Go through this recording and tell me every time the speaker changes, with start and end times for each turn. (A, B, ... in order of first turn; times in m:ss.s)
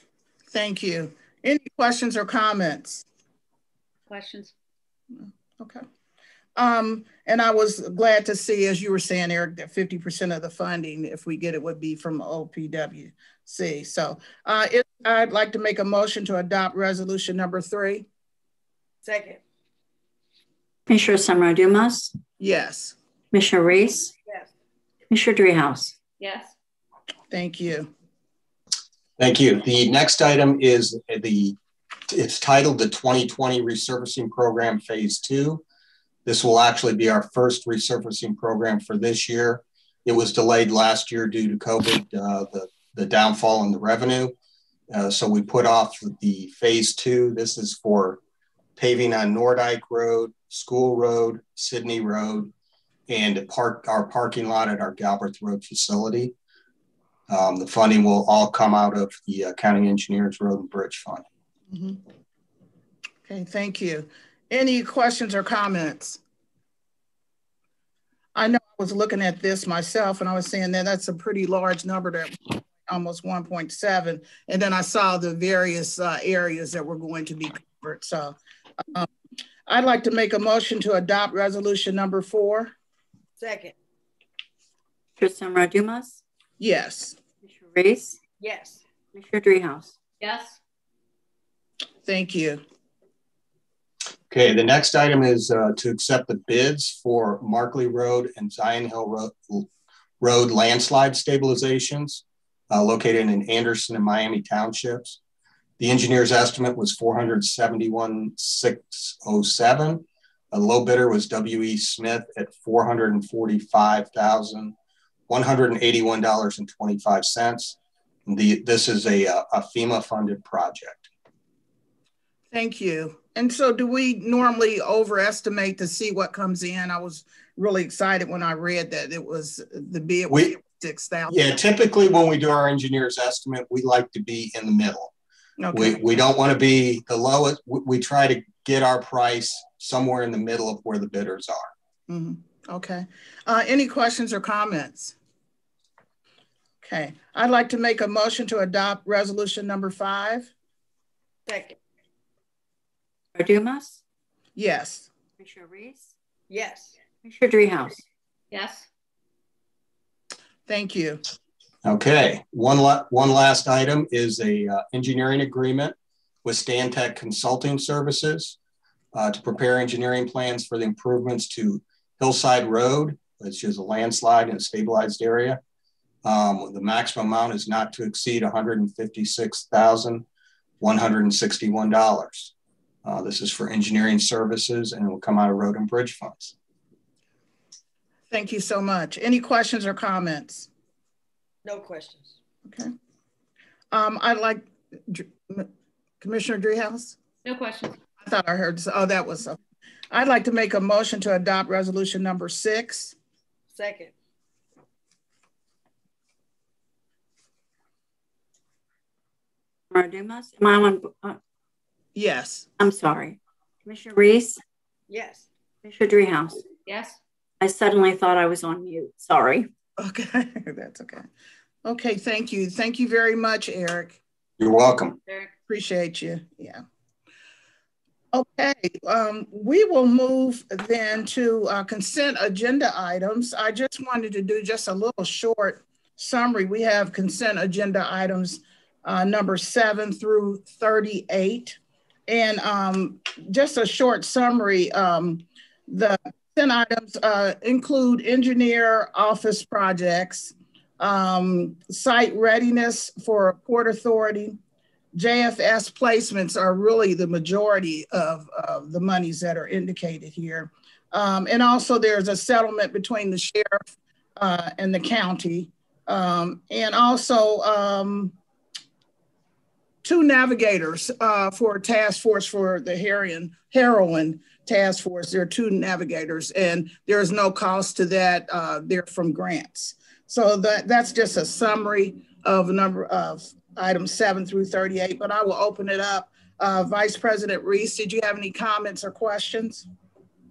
0:00.5-0:03.0 A
0:04.1-0:04.5 B
0:05.2-0:05.8 A
0:06.6-0:18.1 A
0:19.0-0:19.4 C
0:20.9-0:22.1 D
0:22.4-0:23.0 A
0:23.3-0:24.1 D
0:25.1-0:26.0 D
0:26.2-0:26.5 B
0:27.3-0:27.9 A
0:29.2-0:31.6 E
0:32.1-0:35.6 E
0:36.2-0:44.3 E
0:44.9-0:48.2 E
0:48.8-0:52.5 E
0:53.1-0:56.3 E
0:57.3-1:01.2 E
1:01.7-1:02.0 A
1:03.2-1:06.2 A
1:08.3-1:18.4 A
1:19.7-1:22.7 A
1:23.4-1:23.7 C
1:25.2-1:26.2 D
1:26.6-1:27.2 A
1:27.4-1:28.2 D
1:28.4-1:28.8 C
1:29.1-1:29.9 D
1:30.2-1:30.6 B
1:32.0-1:32.6 A
1:34.3-1:39.7 E
1:40.2-1:45.2 E
1:45.8-1:54.7 E
1:55.3-2:01.1 E
2:02.5-2:11.6 A
2:11.3-2:15.1 E
2:15.6-2:16.0 A
2:15.7-2:21.7 E
2:22.1-2:25.1 A
2:26.8-2:30.5 A
2:31.5-2:31.8 C
2:33.3-2:34.0 D
2:34.5-2:35.1 A
2:35.4-2:36.1 D
2:36.5-2:36.9 C
2:37.2-2:38.0 D
2:38.5-2:38.8 B
2:40.6-2:41.2 A
2:41.8-2:48.6 E
2:49.1-2:55.6 E
2:56.2-3:00.2 E
3:00.8-3:02.5 E
3:03.0-3:06.5 E
3:08.3-3:10.7 A
3:11.6-3:12.3 C
3:12.6-3:12.9 A
3:13.9-3:15.7 A
3:16.2-3:17.2 A
3:17.4-3:18.0 B
3:18.2-3:19.6 A
3:20.1-3:23.1 A
3:23.7-3:24.1 C
3:29.9-3:31.4 D
3:32.1-3:32.7 A
3:32.8-3:34.6 D
3:35.1-3:35.5 C
3:35.8-3:36.6 D
3:36.8-3:37.2 B
3:37.6-3:39.7 D
3:40.0-3:41.2 A
3:41.8-3:44.2 A
3:44.6-3:45.2 E
3:45.7-3:46.8 A
3:48.3-4:14.6 A
4:15.1-4:23.8 A
4:24.4-4:28.3 A
4:30.0-4:49.8 A